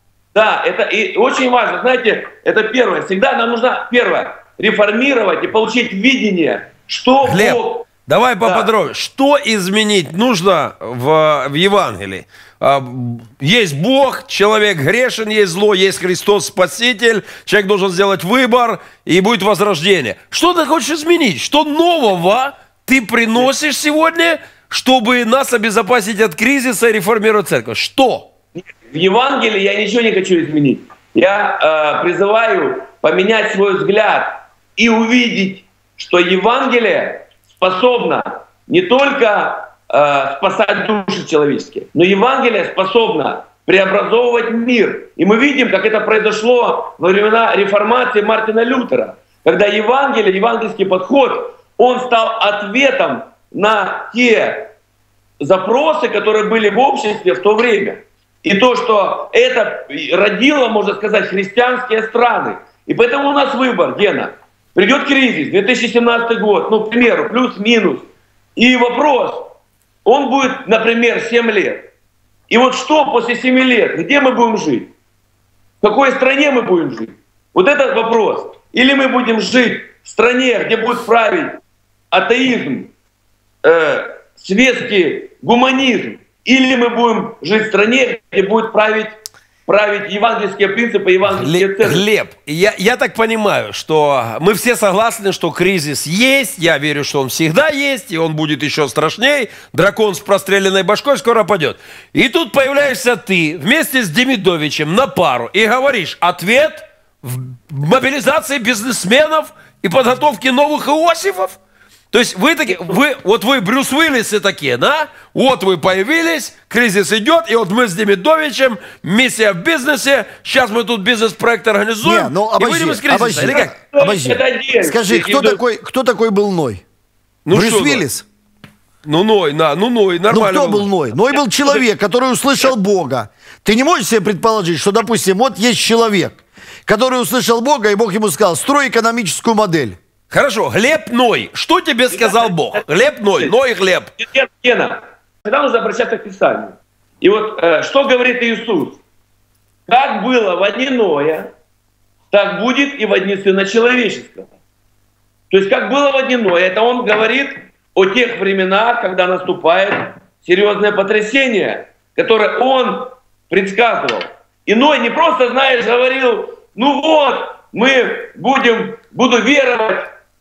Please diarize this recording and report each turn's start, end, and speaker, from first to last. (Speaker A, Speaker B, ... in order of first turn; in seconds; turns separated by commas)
Speaker A: 0.3-7.9, Speaker B: 7.2-28.3, Speaker A: 8.4-8.7, Speaker A: 28.6-54.7, Speaker A: 55.4-69.5, Speaker A: 70.0-71.9, Speaker A: 72.5-74.9, Speaker A: 75.8-82.9, Speaker A: 83.6-92.0, Speaker B: 91.3-111.6, Speaker B: 112.1-123.7, Speaker C: 122.0-126.8, Speaker A: 123.5-125.6, Speaker B: 127.5-128.1, Speaker C: 127.5-128.2, Speaker B: 129.0-130.9, Speaker C: 130.3-140.0, Speaker B: 140.3-144.1, Speaker A: 142.1-142.8, Speaker A: 144.2-149.0, Speaker A: 149.9-151.5, Speaker A: 152.3-154.5, Speaker A: 155.5-170.1